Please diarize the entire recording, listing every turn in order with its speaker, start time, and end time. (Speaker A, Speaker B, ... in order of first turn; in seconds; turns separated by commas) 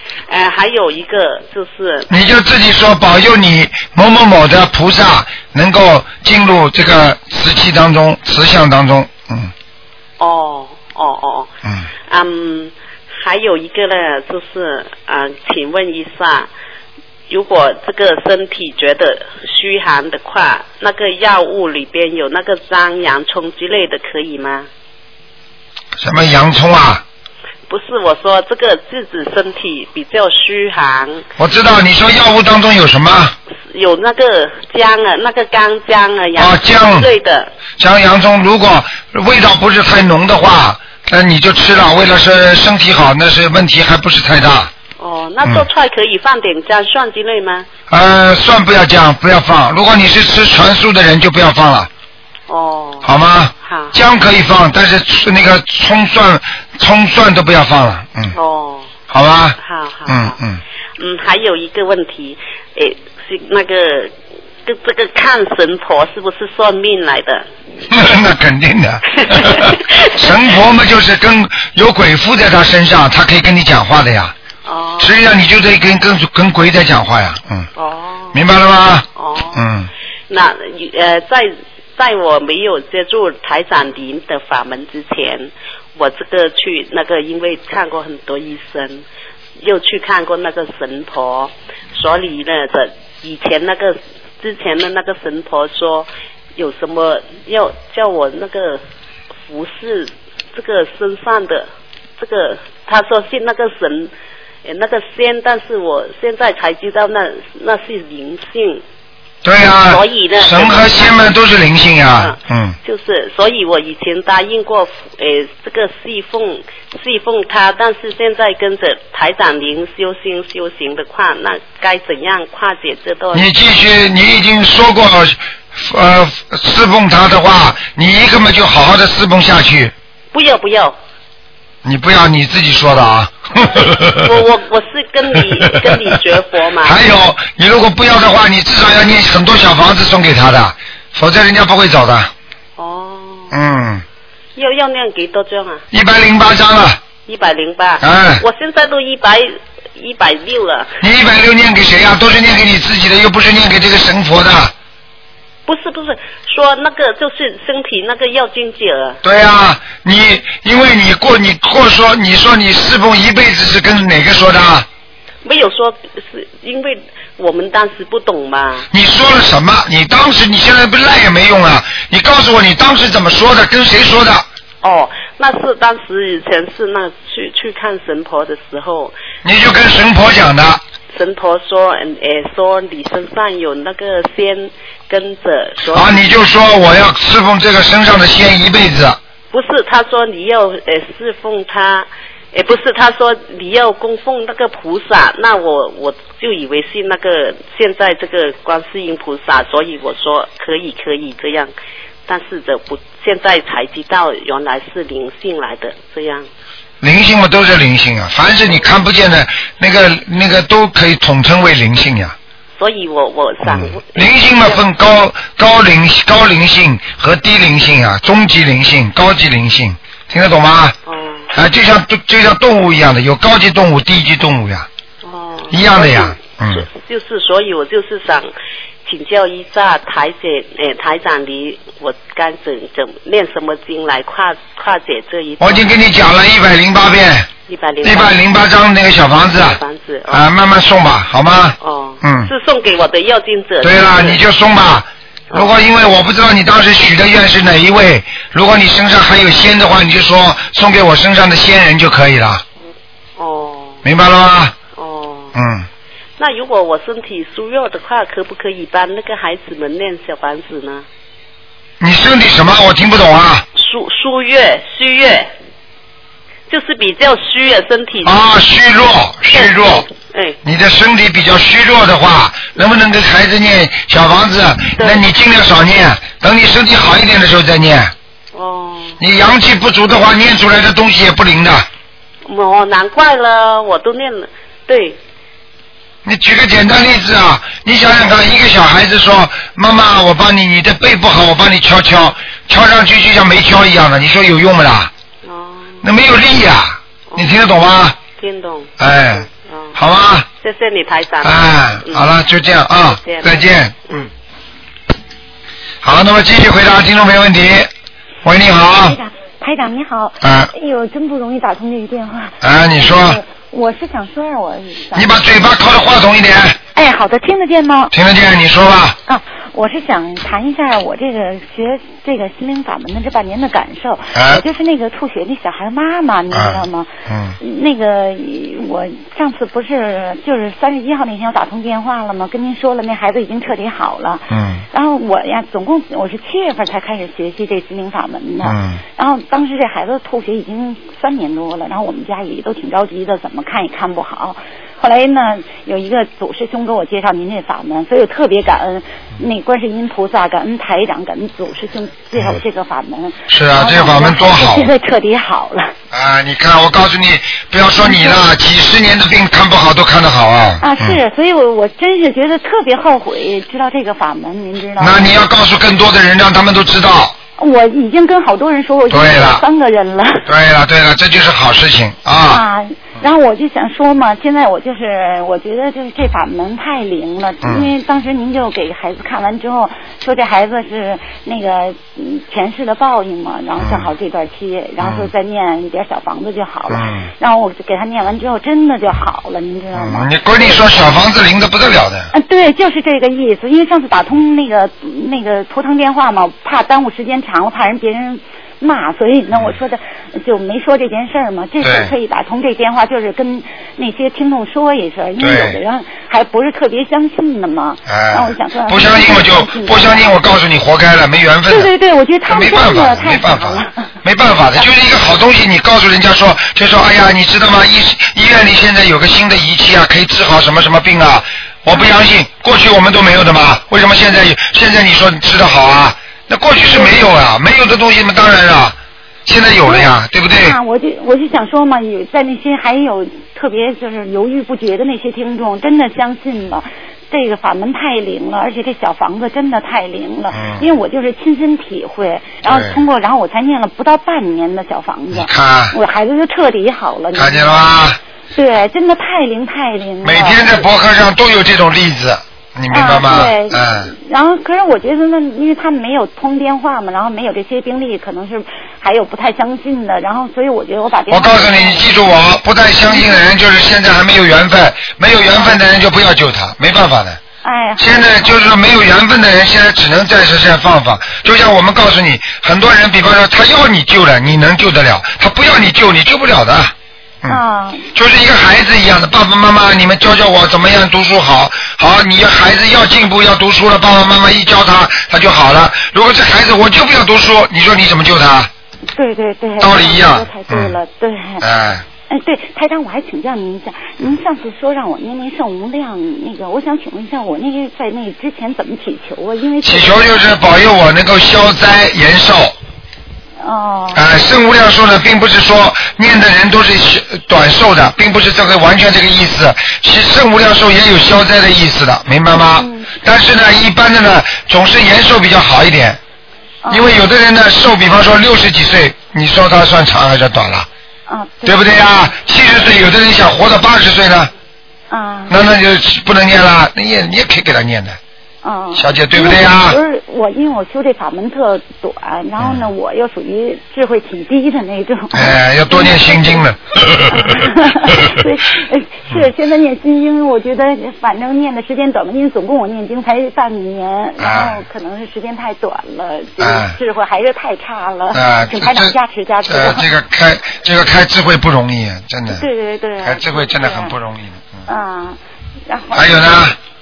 Speaker A: 0.3-2.1, Speaker B: 2.1-9.5, Speaker A: 10.2-11.5, Speaker A: 12.1-16.5, Speaker A: 17.3-24.7, Speaker B: 26.0-27.0, Speaker A: 27.7-31.2, Speaker B: 31.4-33.3, Speaker A: 33.7-37.5, Speaker B: 36.4-37.1, Speaker B: 37.8-44.7, Speaker A: 45.0-47.7, Speaker B: 47.9-51.9, Speaker A: 52.5-53.1, Speaker B: 53.0-58.3, Speaker A: 53.6-54.0, Speaker A: 58.3-58.9, Speaker B: 59.1-60.6, Speaker A: 59.6-60.4, Speaker A: 61.0-64.1, Speaker A: 64.6-67.5, Speaker B: 67.9-74.3, Speaker A: 69.2-70.4, Speaker A: 74.6-75.1, Speaker B: 75.0-77.7, Speaker A: 77.8-78.4, Speaker B: 78.3-79.9, Speaker A: 79.2-79.6, Speaker A: 80.3-89.0, Speaker A: 89.6-98.8, Speaker A: 99.5-104.1, Speaker A: 104.6-108.8, Speaker B: 109.4-112.8, Speaker A: 109.9-111.3, Speaker A: 112.2-123.5, Speaker B: 123.3-129.9, Speaker A: 130.3-130.9, Speaker B: 131.8-134.4, Speaker A: 134.1-136.9, Speaker B: 136.8-142.3, Speaker A: 142.8-143.5, Speaker B: 143.5-144.0, Speaker A: 144.6-145.8, Speaker B: 145.9-147.0, Speaker A: 147.3-150.9, Speaker B: 148.0-148.4, Speaker B: 151.0-154.7, Speaker A: 155.7-159.2, Speaker B: 159.2-164.9, Speaker A: 165.4-168.9, Speaker B: 168.9-174.4, Speaker A: 174.8-179.1, Speaker B: 179.4-180.8, Speaker A: 181.1-186.2, Speaker B: 185.9-189.2, Speaker A: 189.5-201.7, Speaker A: 202.3-206.5, Speaker B: 207.0-212.3, Speaker A: 212.8-214.8, Speaker B: 213.6-220.9, Speaker A: 221.1-221.5, Speaker B: 221.5-224.9, Speaker A: 225.2-228.5, Speaker B: 225.7-226.8, Speaker A: 229.0-235.9, Speaker B: 235.6-237.5, Speaker A: 237.7-238.4, Speaker B: 238.0-242.5, Speaker A: 239.5-240.4, Speaker A: 241.8-244.4, Speaker B: 243.8-252.6, Speaker A: 245.5-245.8, Speaker A: 253.4-254.0, Speaker B: 254.0-254.8, Speaker A: 254.9-255.5, Speaker B: 255.5-255.9, Speaker A: 256.4-261.1, Speaker B: 262.0-263.6, Speaker A: 263.8-265.5, Speaker A: 266.7-268.4, Speaker B: 268.2-270.1, Speaker A: 269.5-270.6, Speaker B: 270.6-278.1, Speaker A: 275.0-275.2, Speaker A: 278.5-279.2, Speaker B: 279.2-281.9, Speaker A: 282.4-285.2, Speaker B: 286.2-295.1, Speaker A: 295.4-296.1, Speaker B: 296.0-298.2, Speaker A: 297.3-297.6, Speaker A: 298.4-299.9, Speaker B: 299.0-300.5, Speaker A: 300.6-302.3, Speaker B: 301.4-303.9, Speaker A: 303.0-304.3, Speaker B: 306.0-307.9, Speaker B: 308.4-309.2, Speaker C: 309.1-315.4, Speaker B: 310.4-310.7, Speaker B: 312.6-313.4, Speaker B: 315.1-316.8, Speaker C: 316.9-318.1, Speaker B: 318.1-319.2, Speaker C: 319.3-327.1, Speaker B: 324.3-324.6, Speaker B: 326.5-327.6, Speaker C: 327.6-355.9, Speaker B: 334.5-334.8, Speaker B: 338.6-339.0, Speaker B: 353.5-354.9, Speaker B: 356.1-361.2, Speaker C: 358.0-358.4, Speaker C: 360.8-365.4, Speaker B: 365.0-367.4, Speaker C: 367.6-370.5, Speaker B: 369.1-369.6, Speaker B: 370.5-372.6, Speaker C: 372.5-390.8, Speaker B: 377.6-377.9, Speaker B: 383.8-384.1, Speaker B: 385.0-385.3, Speaker B: 386.9-387.3, Speaker B: 389.9-392.3, Speaker C: 392.3-410.4, Speaker B: 401.8-402.1, Speaker B: 405.4-405.8, Speaker B: 408.1-411.9, Speaker C: 411.7-414.1, Speaker B: 412.5-430.8, Speaker C: 426.8-427.2, Speaker C: 429.8-447.9, Speaker B: 440.5-440.9, Speaker B: 442.6-443.0, Speaker B: 445.3-445.9, Speaker B: 447.3-448.2, Speaker C: 448.5-450.8, Speaker B: 450.2-454.1, Speaker C: 452.9-462.1, Speaker B: 461.3-467.4, Speaker C: 463.1-463.4, Speaker C: 465.5-465.8, Speaker C: 467.6-468.6, Speaker B: 468.0-477.6, Speaker C: 477.5-478.1, Speaker B: 478.1-488.7, Speaker C: 489.1-491.6, Speaker B: 489.8-490.9, Speaker B: 491.6-492.0, Speaker C: 492.3-500.4, Speaker B: 499.8-502.7, Speaker C: 503.6-504.2, Speaker B: 504.1-516.2, Speaker C: 512.5-513.1, Speaker C: 516.8-517.1, Speaker B: 516.9-520.9, Speaker C: 521.3-522.0, Speaker B: 521.6-524.5, Speaker C: 525.1-525.6, Speaker B: 525.5-528.2, Speaker C: 528.6-536.7, Speaker B: 528.9-530.0, Speaker B: 532.6-532.8, Speaker B: 535.3-538.4, Speaker C: 537.2-550.0, Speaker B: 544.4-544.8, Speaker B: 546.6-547.0, Speaker B: 548.3-549.1, Speaker B: 549.6-552.6, Speaker C: 552.5-554.1, Speaker B: 553.2-554.9, Speaker C: 554.9-556.6, Speaker B: 556.1-556.8